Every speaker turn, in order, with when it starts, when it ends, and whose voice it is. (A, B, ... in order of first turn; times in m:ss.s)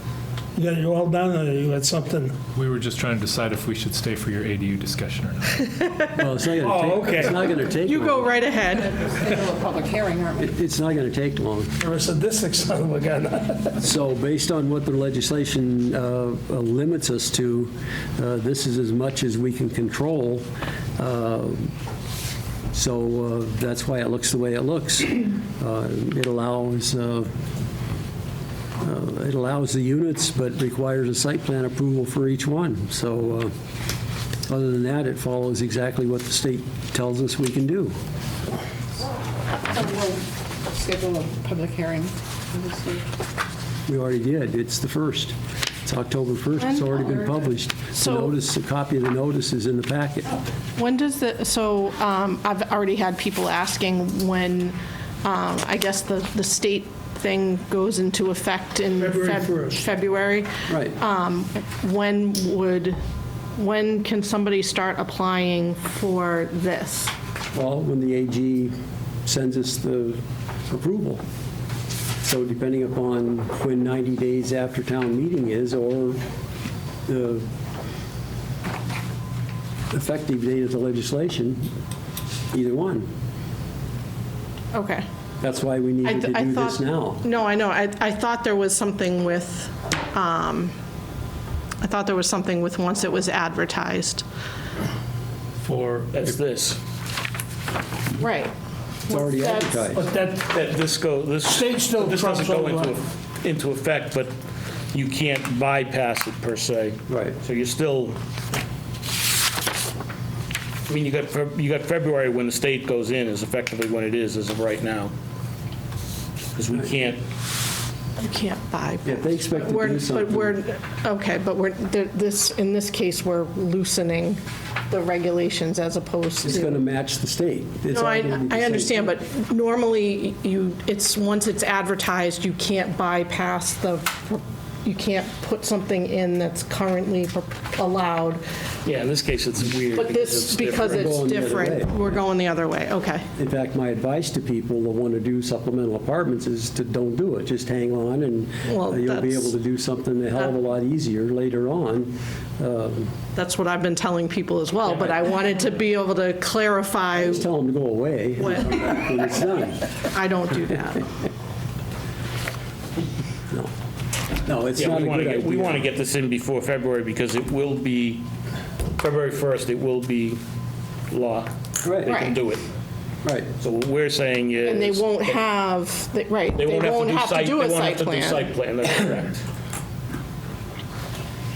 0:00.6-0:02.4 A
0:02.6-0:05.8 B
0:06.1-0:08.3 C
0:06.6-0:07.6 A
0:07.8-0:09.0 D
0:09.0-0:10.4 E
0:10.4-0:11.7 C
0:11.8-0:13.8 A
0:13.8-0:20.5 C
0:21.0-0:21.7 C
0:22.7-0:27.3 C
0:28.8-0:33.5 C
0:34.5-0:38.0 C
0:39.7-0:43.0 E
0:43.9-0:50.4 C
0:46.6-0:47.2 D
0:48.0-0:48.3 D
0:50.8-1:03.0 D
0:59.0-0:59.8 A
1:00.7-1:01.0 C
1:03.6-1:07.1 D
1:07.5-1:11.2 C
1:12.2-1:16.2 C
1:17.1-1:17.5 C
1:19.9-1:21.7 C
1:22.5-1:23.1 C
1:24.7-1:25.1 D
1:25.4-1:27.3 C
1:26.0-1:30.7 D
1:31.8-1:34.2 D
1:35.6-1:36.8 F
1:38.2-1:38.5 D
1:39.1-1:39.9 D
1:39.1-1:40.1 C
1:40.0-1:40.5 A
1:40.5-1:44.3 F
1:41.5-1:43.0 A
1:44.9-1:48.2 F
1:47.1-1:47.4 C
1:50.9-1:55.1 F
1:56.6-1:57.2 F
1:58.2-2:06.8 D
1:59.0-2:00.6 C
2:06.4-2:09.1 C
2:07.9-2:18.4 D
2:18.8-2:21.5 F
2:20.0-2:23.3 D
2:20.8-2:22.0 C
2:23.4-2:33.2 C
2:28.6-2:29.6 D
2:33.4-2:37.5 D
2:37.2-2:39.9 C
2:38.4-2:39.0 D
2:40.0-2:41.1 D
2:44.4-2:45.8 C
2:44.8-2:48.3 F
2:49.0-2:50.4 F
2:51.1-2:51.5 F
2:51.8-2:52.2 C
2:52.0-2:52.6 F
2:52.1-2:52.4 D
2:53.2-2:53.5 C
2:53.6-2:55.4 F
2:54.6-2:58.5 D
2:56.5-2:59.4 F